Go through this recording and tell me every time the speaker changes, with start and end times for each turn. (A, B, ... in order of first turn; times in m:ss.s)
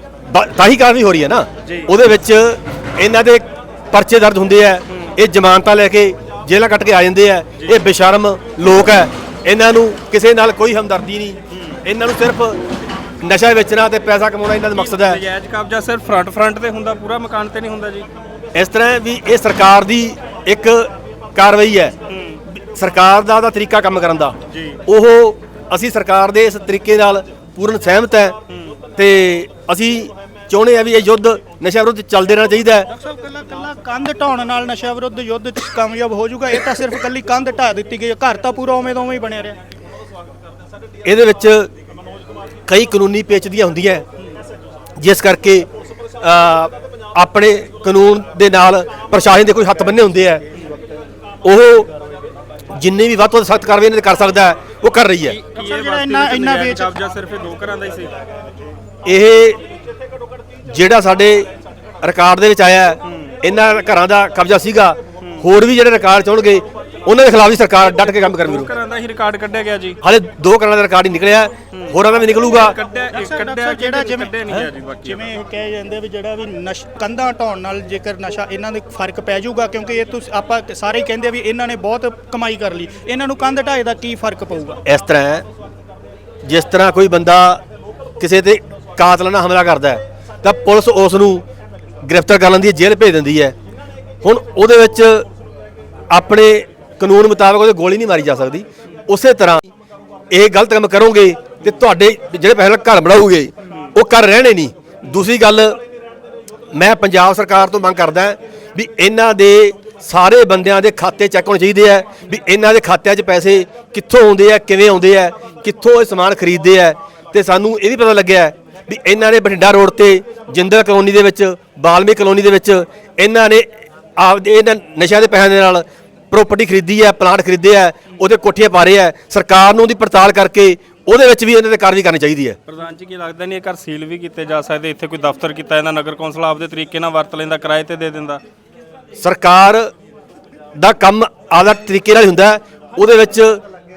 0:00.3-0:12.6 A
0:13.2-0:15.2 A
0:14.7-0:18.1 B
0:18.5-0:21.9 A
0:22.1-0:22.4 B
0:22.5-0:24.4 A
0:24.5-0:24.8 B
0:24.9-0:28.4 A
0:28.5-0:28.8 B
0:29.0-0:32.9 A
0:32.9-0:39.6 C
0:41.0-0:41.7 A
0:42.7-0:44.0 A
0:45.0-0:45.7 A
0:46.2-0:50.4 A
0:51.4-0:51.9 A
0:52.7-0:55.4 A
0:55.2-0:58.1 B
0:55.5-0:56.9 C
0:59.0-0:59.6 A
1:00.7-1:01.5 A
1:02.0-1:08.7 A
1:03.0-1:03.3 B
1:07.8-1:10.0 B
1:10.0-1:12.8 A
1:11.7-1:15.3 B
1:13.1-1:24.8 C
1:24.8-1:25.4 A
1:26.4-1:27.6 A
1:28.2-1:31.4 A
1:32.0-1:33.6 A
1:34.2-1:35.3 A
1:36.1-1:39.7 A
1:40.3-1:45.8 A
1:46.7-2:12.6 A
2:12.7-2:18.4 B
2:19.2-2:19.9 A
2:20.8-2:23.6 A